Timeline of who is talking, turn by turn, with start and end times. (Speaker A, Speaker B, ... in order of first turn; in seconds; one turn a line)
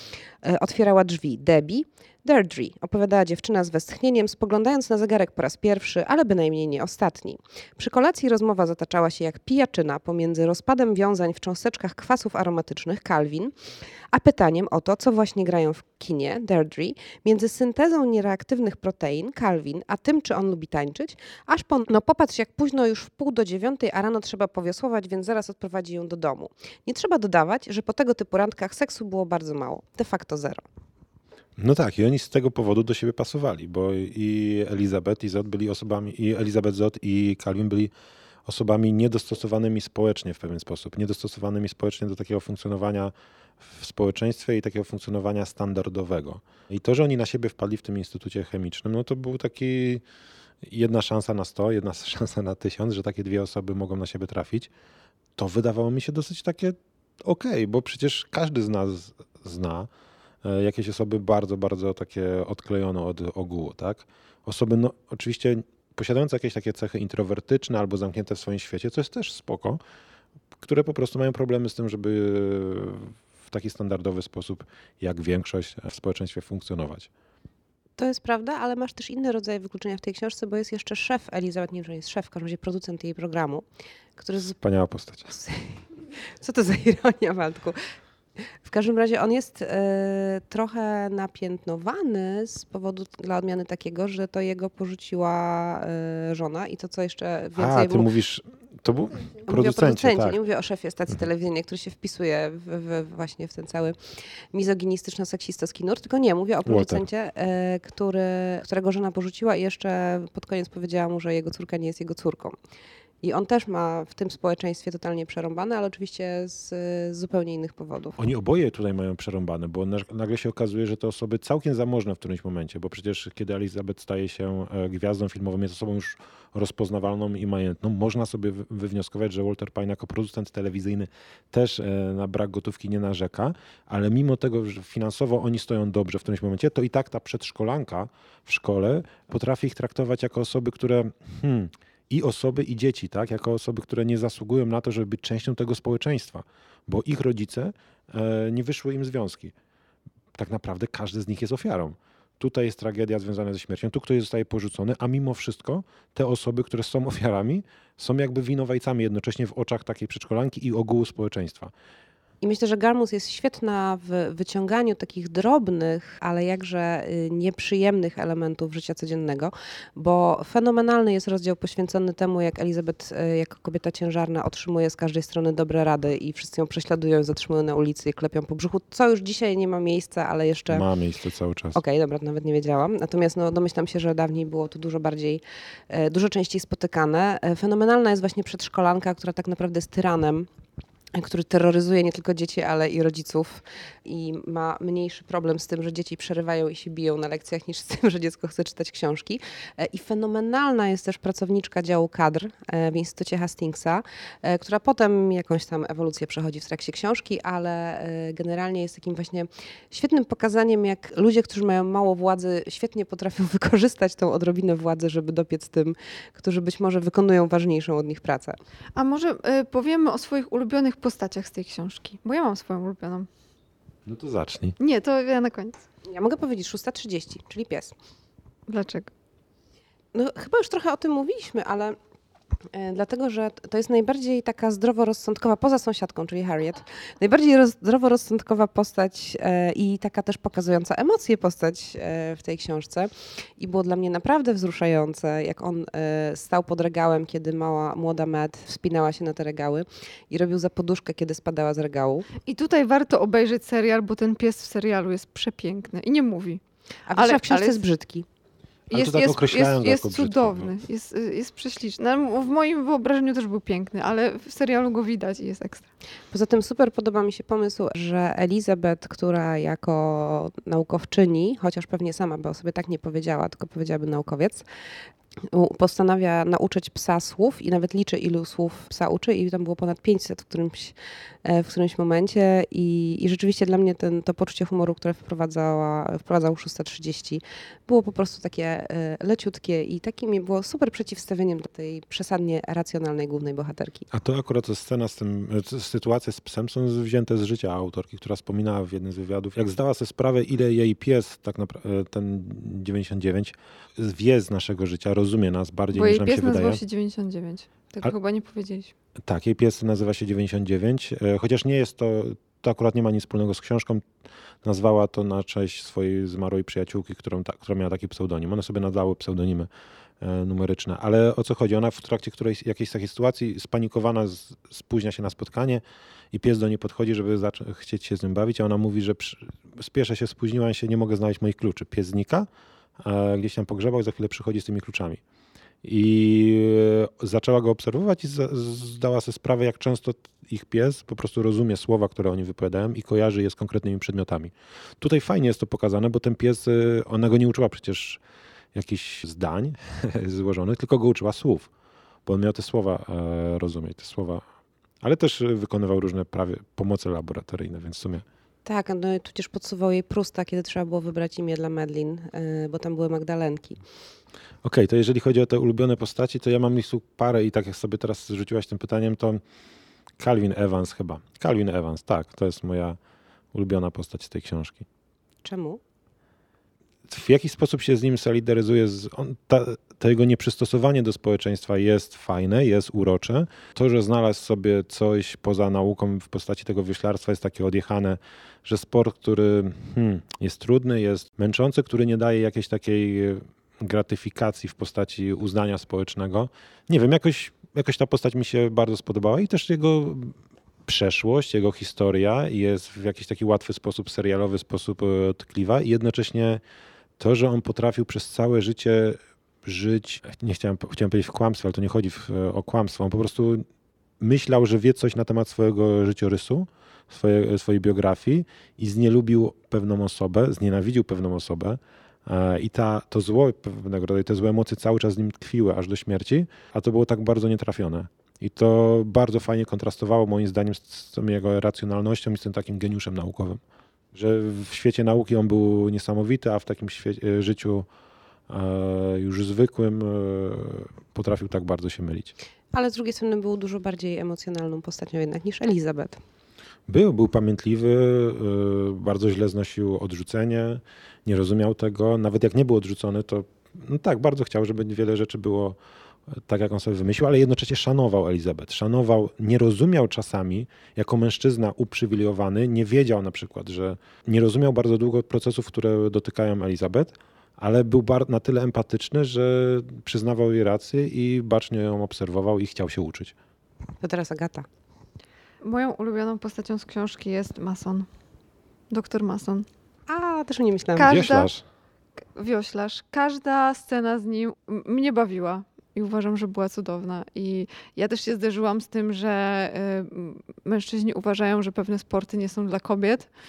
Speaker A: 0.4-13.5
Speaker A: 14.1-30.6
Speaker B: 31.6-37.9
Speaker B: 38.5-50.0
Speaker B: 50.6-54.7
Speaker B: 55.4-59.9
Speaker B: 60.4-69.8
Speaker B: 70.6-77.1
Speaker A: 78.0-83.6
Speaker A: 84.2-84.6
Speaker B: 84.6-85.3
Speaker A: 85.3-87.8
Speaker A: 88.4-98.1
Speaker B: 97.6-100.4
Speaker A: 99.5-104.0
Speaker A: 104.5-112.5
Speaker B: 106.7-107.0
Speaker A: 113.2-118.2
Speaker B: 118.2-149.5
Speaker B: 150.3-161.7
Speaker A: 162.4-180.8
Speaker B: 180.7-181.8
Speaker A: 181.8-190.5
Speaker A: 191.1-218.6
Speaker C: 218.9-223.3
Speaker B: 224.1-224.7
Speaker C: 224.8-225.8
Speaker A: 226.0-227.9
Speaker C: 228.7-229.1
Speaker A: 230.1-231.9
Speaker A: 232.7-252.3
Speaker C: 252.4-256.6
Speaker A: 257.1-258.2
Speaker C: 257.1-257.8
Speaker B: 258.9-260.7
Speaker C: 258.9-265.9
Speaker A: 266.3-274.6
Speaker A: 275.5-294.1
Speaker B: 294.1-306.8
Speaker C: 305.9-308.9
Speaker B: 309.2-314.0
Speaker B: 314.6-319.7
Speaker B: 320.2-332.5
Speaker B: 333.0-335.2
Speaker B: 335.8-348.2
Speaker B: 348.7-351.7
Speaker B: 352.2-354.4
Speaker B: 355.0-358.2
Speaker A: 358.6-363.8
Speaker B: 364.6-369.4
Speaker B: 370.2-373.0
Speaker B: 373.5-374.9
Speaker A: 375.4-375.8
Speaker B: 377.1-400.3
Speaker B: 400.9-406.6
Speaker B: 407.2-413.6
Speaker B: 414.2-433.6
Speaker B: 434.1-437.9
Speaker B: 438.5-442.3
Speaker A: 442.7-446.2
Speaker B: 446.9-455.8
Speaker B: 456.3-473.3
Speaker A: 474.0-474.6
Speaker C: 475.6-478.1
Speaker C: 478.9-479.7
Speaker A: 480.1-481.1
Speaker C: 480.9-481.5
Speaker B: 481.0-481.6
Speaker C: 482.4-493.3